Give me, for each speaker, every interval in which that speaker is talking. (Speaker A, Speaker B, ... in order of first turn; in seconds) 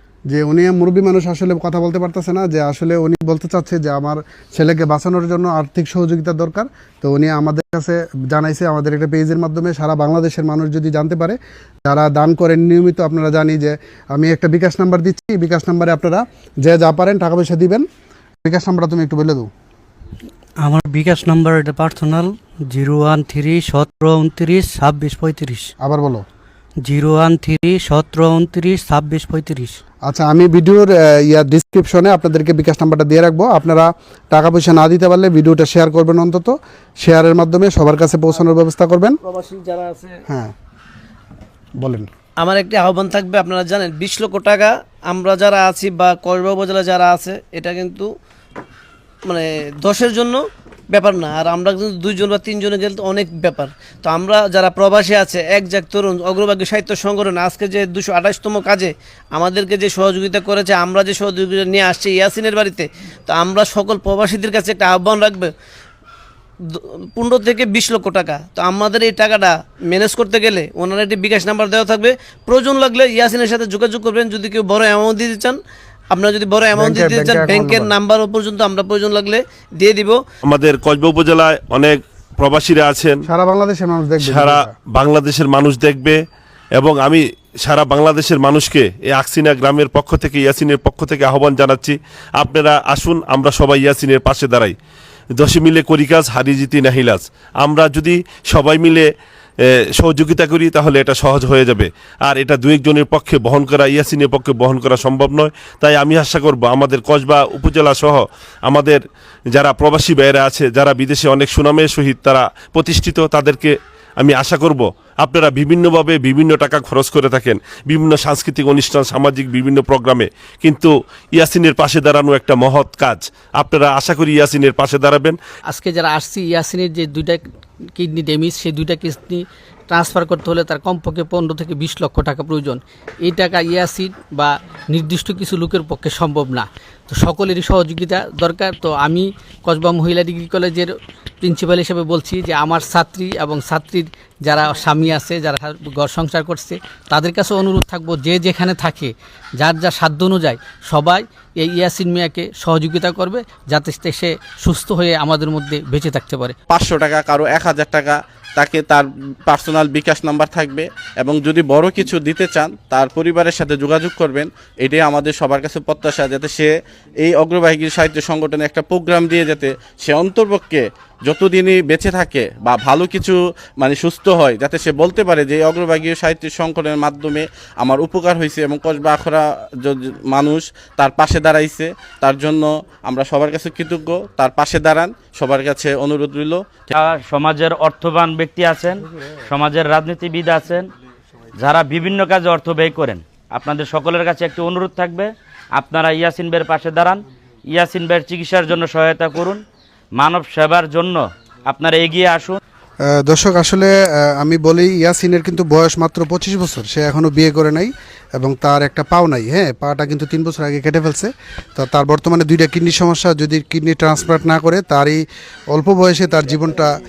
Speaker A: 0.3-17.9, 18.4-19.5, 25.8-26.2, 30.1-39.2, 40.3-40.5, 41.8-42.1, 76.8-77.9, 83.3-84.7, 203.1-216.9
Speaker B: 20.6-25.7, 26.9-29.8
Speaker C: 39.2-40.2, 42.4-48.1, 49.2-65.5, 66.7-75.6, 76.1-80.2
Speaker D: 80.5-83.2, 84.2-86.2, 86.8-94.8, 95.4-99.1, 100.0-109.0, 109.5-125.4
Speaker E: 125.7-127.4, 128.0-140.9, 141.4-156.6
Speaker F: 156.7-186.6
Speaker G: 186.9-190.9, 191.6-199.6, 200.2-202.6